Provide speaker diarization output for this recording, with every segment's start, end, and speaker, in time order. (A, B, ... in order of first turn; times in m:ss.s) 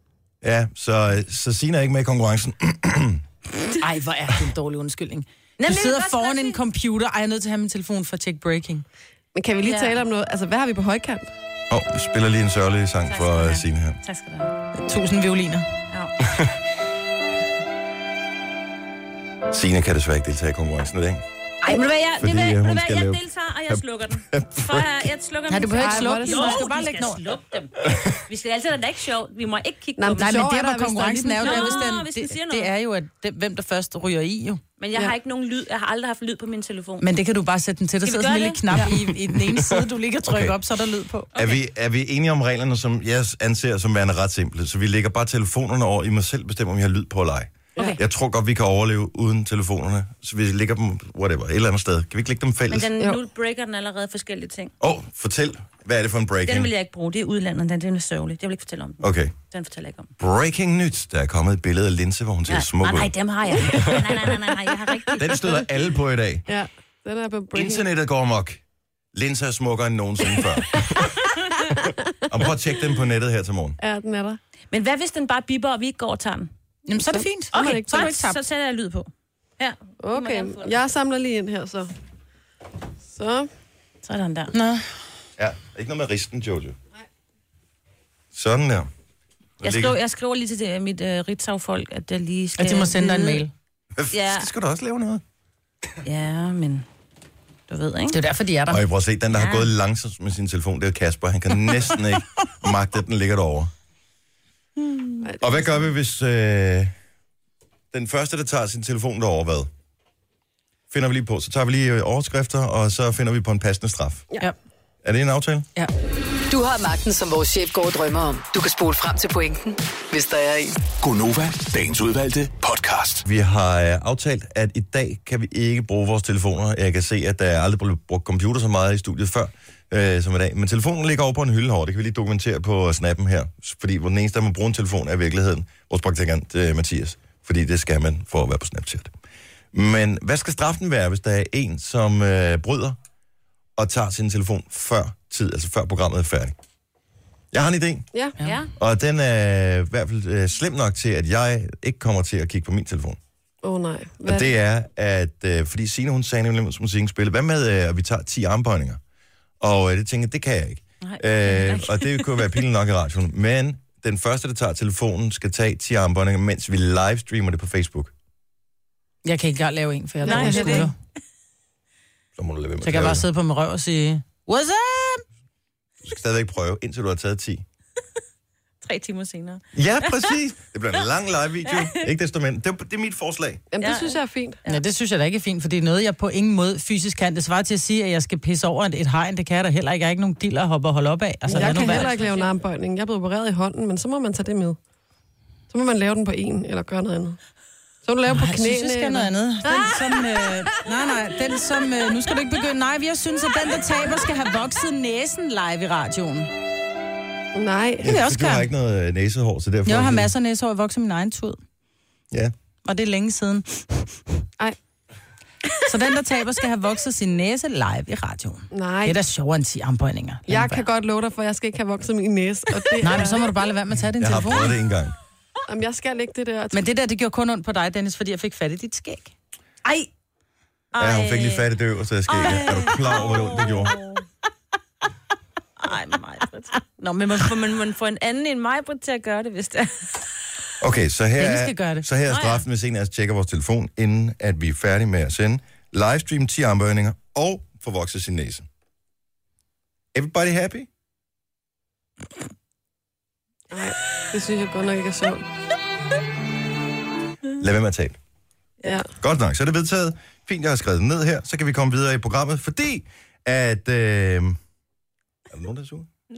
0:00.4-0:03.2 A
0:03.8-0:08.8 B
0:05.6-0:06.6 C
0:09.4-0:11.3 D
0:09.6-0:10.0 C
0:11.7-0:14.0 A
0:13.1-0:14.6 C
0:14.8-0:15.7 B
0:15.9-0:16.1 C
0:19.5-0:21.2 A
0:21.6-0:30.5 C
0:22.2-0:25.1 A
0:25.5-0:27.2 B
0:25.8-0:26.6 D
0:30.0-0:31.9 D
0:30.1-0:34.6 B
0:31.4-0:32.7 C
0:34.8-0:37.1 C
0:37.0-0:41.3 B
0:38.0-0:38.9 C
0:40.2-0:40.6 A
0:41.4-0:41.6 C
0:41.4-0:52.9 A
0:52.7-0:54.7 C
0:54.8-0:56.7 A
0:56.5-1:00.1 C
0:59.0-0:59.3 A
1:00.2-1:03.1 A
1:02.5-1:05.6 C
1:05.2-1:06.5 A
1:06.5-1:07.9 D
1:07.5-1:08.6 A
1:09.1-1:11.0 A
1:10.4-1:11.1 D
1:11.7-1:12.1 D
1:12.3-1:13.8 A
1:13.8-1:14.4 D
1:14.7-1:16.5 C
1:16.9-1:18.4 B
1:17.1-1:17.9 D
1:17.5-1:20.8 C
1:20.0-1:21.9 D
1:23.1-1:23.5 D
1:24.0-1:24.5 C
1:24.5-1:24.9 B
1:25.4-1:26.8 A
1:28.3-1:28.9 A
1:29.6-1:30.0 A
1:29.6-1:33.4 C
1:32.6-1:33.5 B
1:34.0-1:35.2 A
1:34.1-1:34.5 C
1:36.0-1:36.9 C
1:37.7-1:38.2 C
1:38.1-1:38.8 B
1:38.7-1:43.7 A
1:39.3-1:39.7 C
1:45.2-1:45.6 D
1:45.4-1:46.9 A
1:47.9-1:49.7 A
1:50.9-1:54.3 A
1:55.0-1:55.7 A
1:56.5-2:00.8 E
2:01.0-2:03.2 F
2:03.2-2:19.1 A
2:19.7-2:23.0 A
2:23.8-2:26.6 A
2:27.5-2:28.1 A
2:28.4-2:28.7 C
2:28.8-2:33.2 A
2:33.6-2:34.5 D
2:34.2-2:39.0 A
2:39.6-2:48.1 A
2:41.0-2:42.6 C
2:49.2-2:51.0 B
2:50.2-2:50.9 D
2:50.2-2:50.9 C
2:52.4-2:53.2 A
2:52.8-2:55.2 B
2:56.0-2:57.6 A
2:58.8-3:00.3 C
2:59.7-3:03.6 A
3:01.6-3:02.1 C
3:03.7-3:04.6 D
3:03.8-3:04.8 C
3:04.7-3:12.1 B
3:11.5-3:12.5 C
3:11.5-3:14.8 D
3:15.7-3:17.4 D
3:18.0-3:20.5 D
3:18.3-3:26.5 B
3:27.6-3:28.1 D
3:28.0-3:30.3 A
3:28.0-3:28.7 B
3:29.9-3:31.6 B
3:32.8-3:34.2 B
3:35.8-3:40.9 B
3:38.7-3:39.2 D
3:40.5-3:43.4 D
3:43.0-3:44.8 B
3:44.2-3:45.2 A
3:45.7-3:46.8 D
3:46.7-3:49.3 B
3:49.8-3:50.1 C
3:50.9-3:51.7 C
3:51.0-3:54.0 A
3:52.3-3:54.2 C
3:55.8-4:00.1 C
3:57.0-3:57.5 B
4:00.8-4:08.7 A
4:01.4-4:02.1 B
4:02.3-4:02.6 C
4:10.1-4:10.9 A
4:13.7-4:15.4 D
4:17.6-4:18.2 A
4:18.8-4:19.1 D
4:19.2-4:24.6 A
4:25.5-4:26.1 A